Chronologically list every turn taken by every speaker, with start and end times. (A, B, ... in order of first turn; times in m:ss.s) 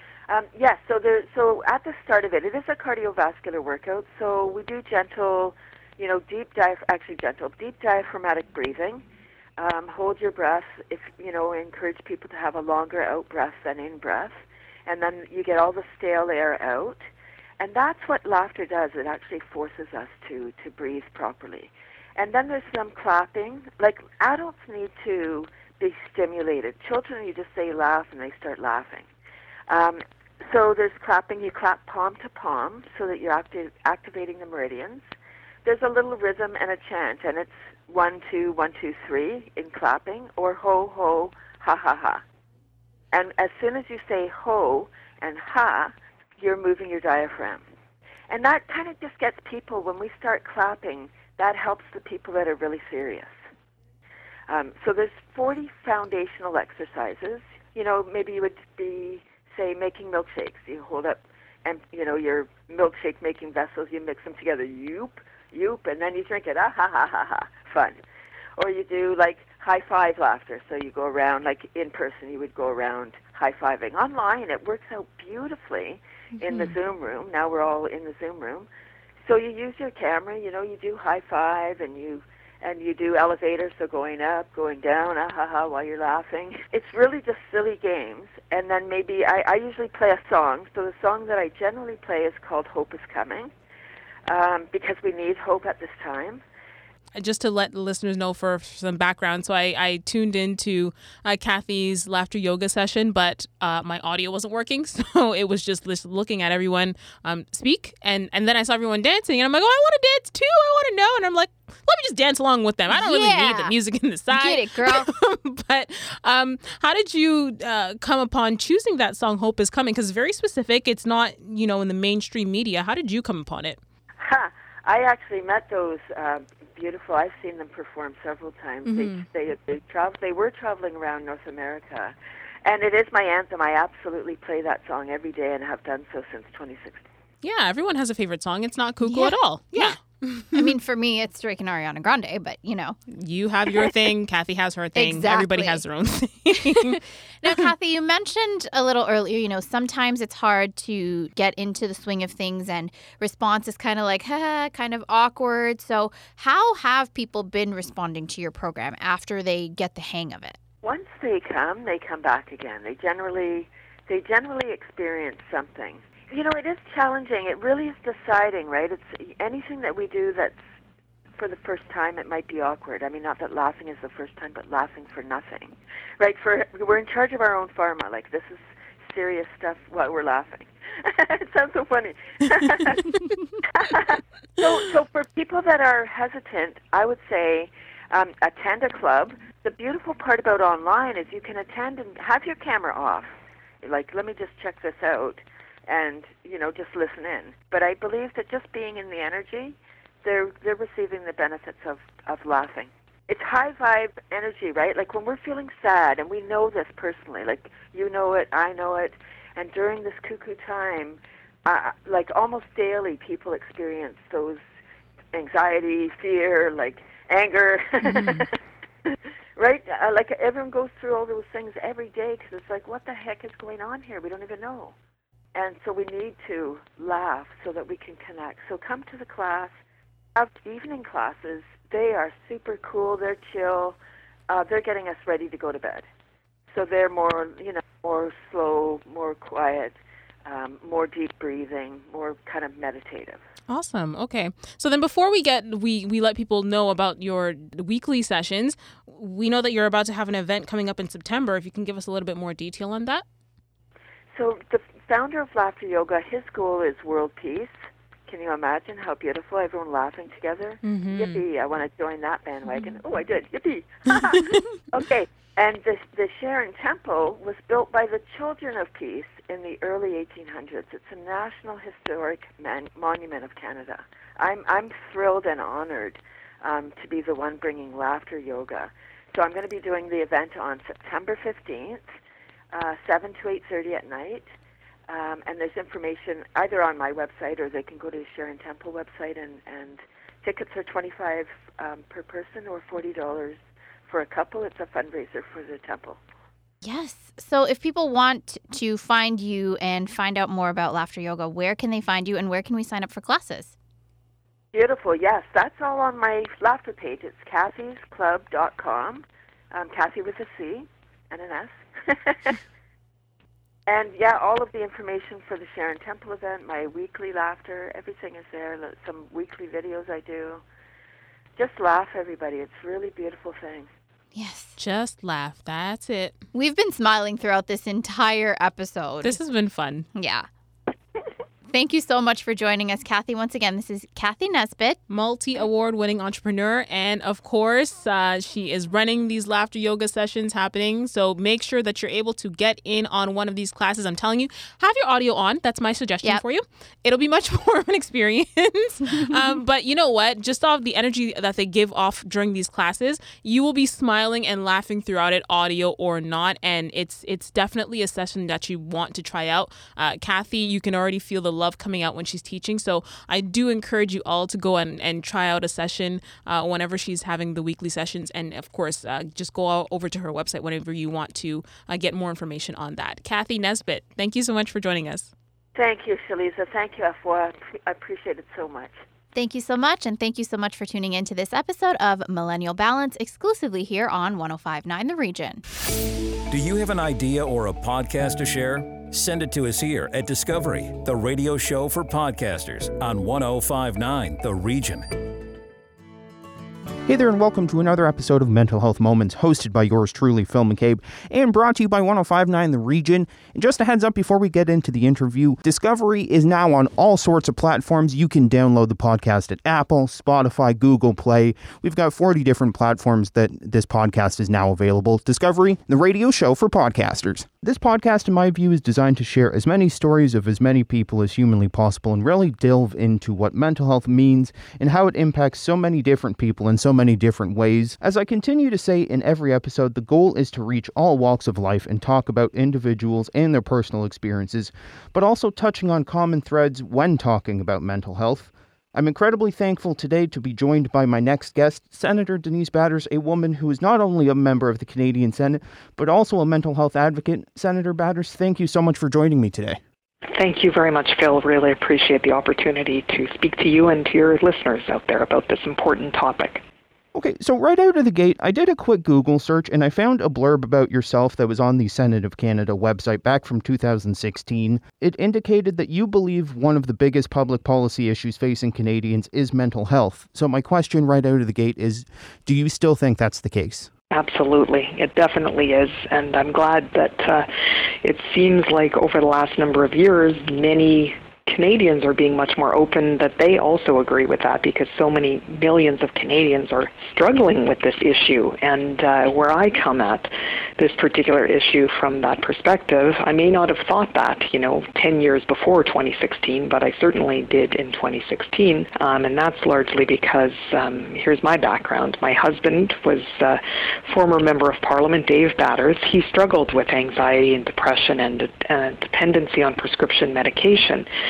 0:00.3-0:09.0 A
0:09.6-0:17.0 A
0:17.6-0:29.1 A
0:29.7-0:35.1 A
0:35.6-0:42.2 A
0:43.1-0:47.6 A
0:48.3-0:53.4 A
0:54.5-1:08.0 A
1:08.6-1:18.7 A
1:19.2-1:33.5 A
1:34.3-1:36.4 A
1:37.1-2:03.8 B
1:52.9-1:53.7 C
1:54.3-1:55.1 C
2:04.2-2:17.0 A
2:08.8-2:09.2 B
2:17.4-2:20.8 B
2:19.0-2:20.0 C
2:20.5-2:23.0 C
2:23.1-2:27.7 B
2:25.0-2:25.8 C
2:26.7-2:40.6 C
2:40.8-2:50.6 A
2:51.4-3:13.3 A
3:13.8-3:34.6 A
3:35.3-3:45.0 A
3:38.1-3:38.4 B
3:45.5-3:49.8 A
3:50.4-3:54.0 A
3:54.5-3:56.1 A
3:56.7-4:03.4 A
4:03.7-4:13.2 B
4:14.3-4:17.7 A
4:18.3-4:42.0 A
4:20.8-4:21.4 B
4:42.7-4:44.5 A
4:45.1-4:56.2 A
4:56.8-5:03.7 C
5:04.7-5:12.6 A
5:13.9-5:20.6 A
5:21.6-5:23.9 A
5:24.3-5:24.7 C
5:24.8-5:26.4 B
5:26.5-5:29.4 C
5:29.2-5:30.1 B
5:30.2-5:30.5 C
5:31.7-5:35.0 C
5:35.1-6:15.3 B
6:15.8-6:19.0 A
6:19.4-6:25.6 C
6:26.5-6:35.2 D
6:37.1-7:29.8 E
7:30.3-7:36.6 F
7:37.1-7:53.9 E
7:54.1-8:31.1 F